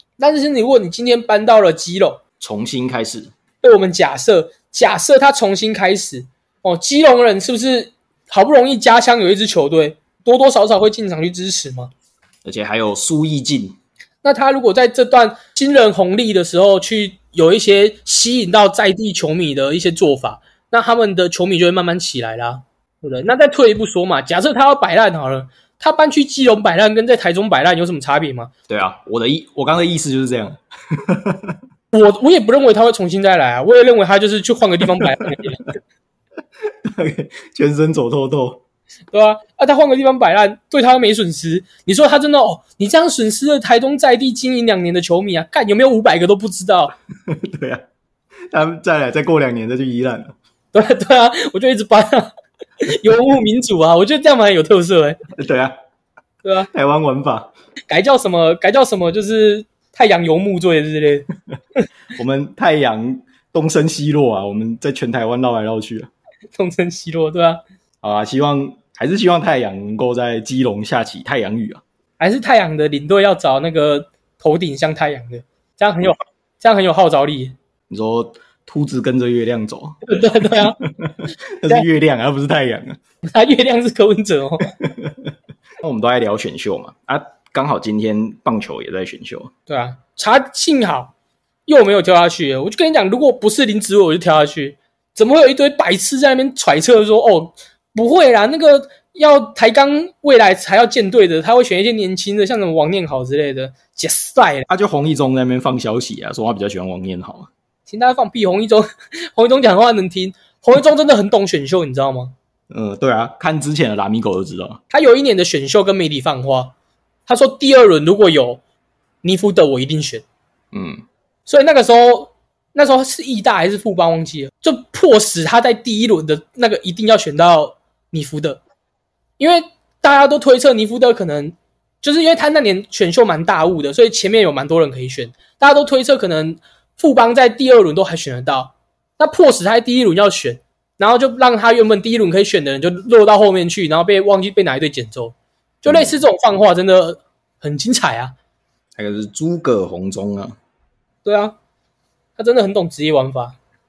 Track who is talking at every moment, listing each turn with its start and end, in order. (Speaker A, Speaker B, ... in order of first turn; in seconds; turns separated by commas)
Speaker A: 0.2-2.2, Speaker B: 2.4-3.3, Speaker A: 3.6-11.9, Speaker B: 12.4-13.8, Speaker A: 14.2-28.5, Speaker B: 28.7-31.6, Speaker A: 31.9-35.6, Speaker B: 36.9-38.6, Speaker A: 39.1-46.9, Speaker B: 47.3-47.8, Speaker B: 48.5-50.4, Speaker A: 50.7-55.2, Speaker B: 55.4-55.7, Speaker A: 56.4-56.7, Speaker B: 56.7-57.5, Speaker A: 57.9-61.3, Speaker B: 62.1-66.1, Speaker A: 66.5-67.6, Speaker B: 68.0-71.8, Speaker A: 72.2-77.5, Speaker B: 77.9-80.0, Speaker A: 80.1-80.8, Speaker B: 80.6-83.0, Speaker A: 83.2-84.8, Speaker B: 84.8-85.2, Speaker B: 85.8-89.5, Speaker A: 89.7-91.1, Speaker A: 91.7-104.7, Speaker B: 104.7-107.5, Speaker A: 107.9-112.3, Speaker B: 112.7-114.8, Speaker A: 114.9-116.7, Speaker A: 117.3-118.6, Speaker A: 119.2-120.2, Speaker B: 120.7-121.0, Speaker A: 121.5-128.6, Speaker A: 129.4-148.3, Speaker B: 145.9-146.2, Speaker B: 149.0-150.6, Speaker A: 151.2-151.6, Speaker A: 152.4-153.6